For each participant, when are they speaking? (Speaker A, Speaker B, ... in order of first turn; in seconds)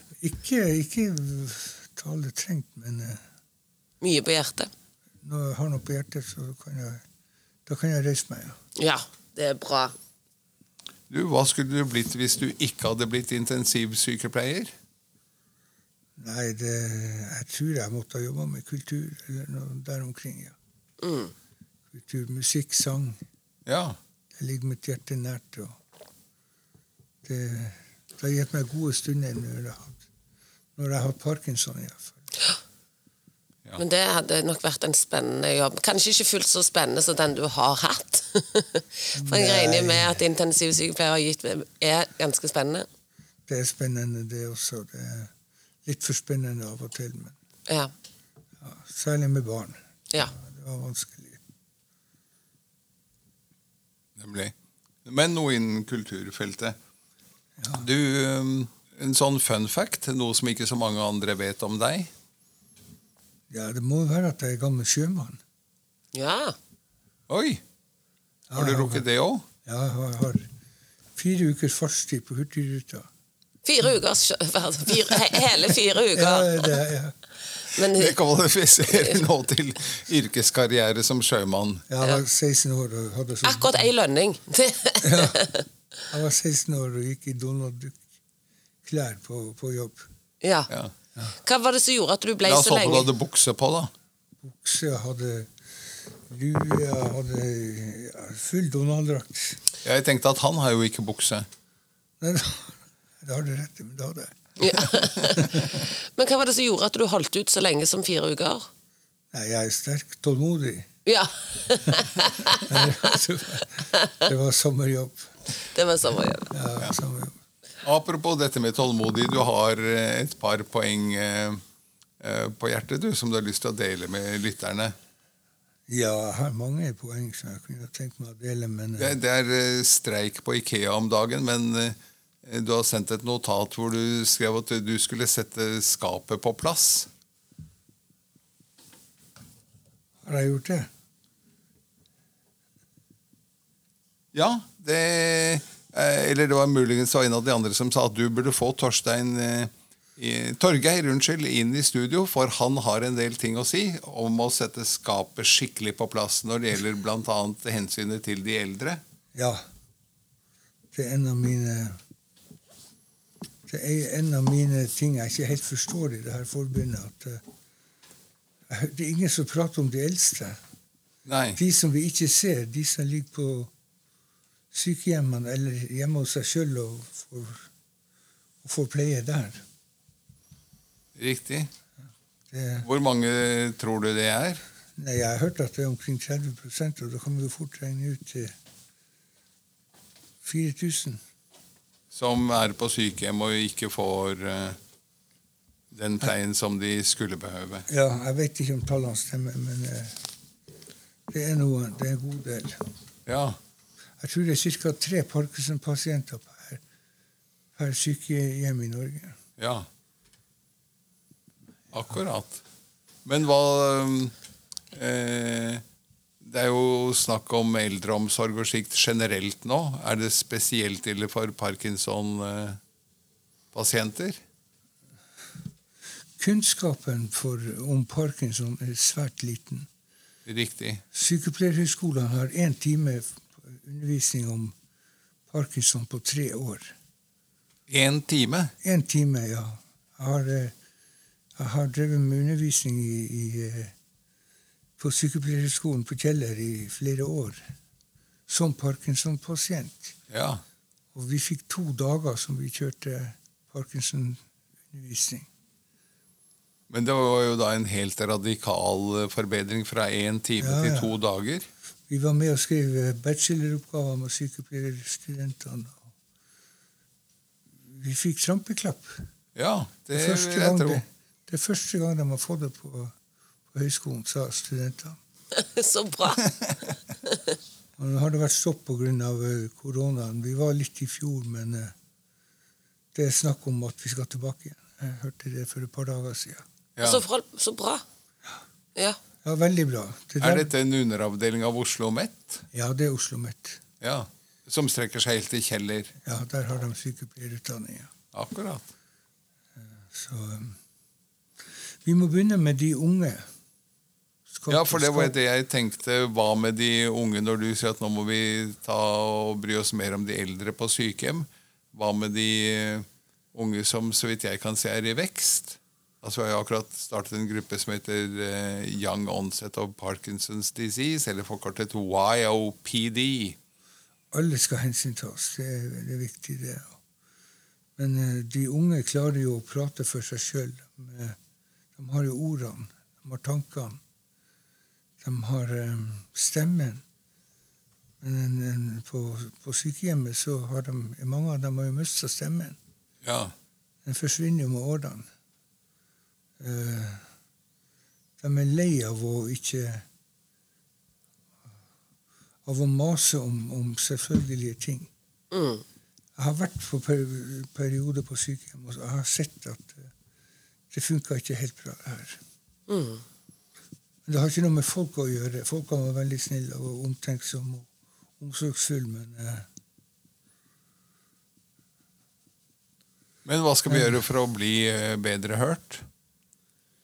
Speaker A: 0.2-3.2, 5.2-7.0, 7.7-8.6, 16.2-20.6, 21.9-23.2, 24.4-25.8, 27.2-30.0, 30.8-32.2, 39.1-40.2, 43.5-45.3, 45.9-47.4, 48.6-51.4, 57.6-57.9, 63.5-65.4, 68.5-69.0, 69.7-70.5, 71.2-73.1, 76.1-77.2, 81.9-83.9, 85.0-85.5, 86.1-88.0, 88.8-90.1, 94.4-95.5, 96.3-99.6, 102.2-105.7, 109.3-110.9, 112.6-115.3, 116.5-117.4, 125.9-129.2, 140.2-140.9, 159.3-159.6, 160.9-162.0, 163.7-167.4, 168.7-170.6, 171.6-173.7, 174.7-177.7, 178.6-179.6, 182.5-182.9, 185.0-188.5, 190.4-191.2, 197.9-200.2, 201.3-202.9, 204.2-206.8, 207.8-209.4, 226.4-229.9, 231.1-234.8, 235.5-236.9, 238.8-240.7, 241.6-243.9, 245.0-247.7, 248.5-250.2, 251.1-255.5, 260.6-261.1, 262.1-266.1, 267.8-269.3, 270.1-273.1, 273.7-275.2, 278.0-281.9, 283.1-286.7, 289.4-290.7, 292.7-293.8, 296.2-298.1, 299.8-300.8, 302.0-303.5, 304.5-305.3, 324.3-326.9, 328.0-331.4, 332.0-334.0, 335.2-337.0, 338.2-342.8, 344.0-345.3, 346.6-347.3, 348.4-350.1, 352.6-355.1, 356.4-360.1, 360.9-362.4, 364.3-369.7
Speaker B: 4.0-4.7, 8.8-9.9, 21.0-21.3, 33.8-42.9, 47.7-47.9, 66.1-66.6, 73.7-76.8, 77.7-78.2, 78.9-79.2, 83.4-85.7, 90.4-90.7, 91.4-93.1, 104.6-108.7, 111.1-113.2, 114.0-114.3, 115.7-116.5, 275.5-276.5, 287.0-288.0, 355.5-355.8, 362.9-363.2
Speaker C: 11.1-14.7, 23.7-24.0, 54.2-54.5, 55.0-56.8, 57.7-62.1, 67.3-67.6, 68.5-69.5, 77.8-81.8, 92.5-93.9, 99.8-101.5, 117.8-121.6, 122.2-125.0, 129.0-137.1, 144.3-159.0, 171.3-171.6, 181.2-181.7, 182.8-184.6, 192.1-194.8, 195.9-197.9, 203.3-203.6, 209.6-209.9, 211.9-212.6, 213.2-214.3, 214.9-215.8, 216.4-222.8, 223.7-224.4, 230.5-231.0, 237.9-238.7, 250.3-250.6, 256.9-261.7, 269.6-271.0, 287.0-287.2, 290.4-292.6, 294.0-296.1, 298.3-298.9, 304.7-323.6, 343.2-343.5, 373.4-376.1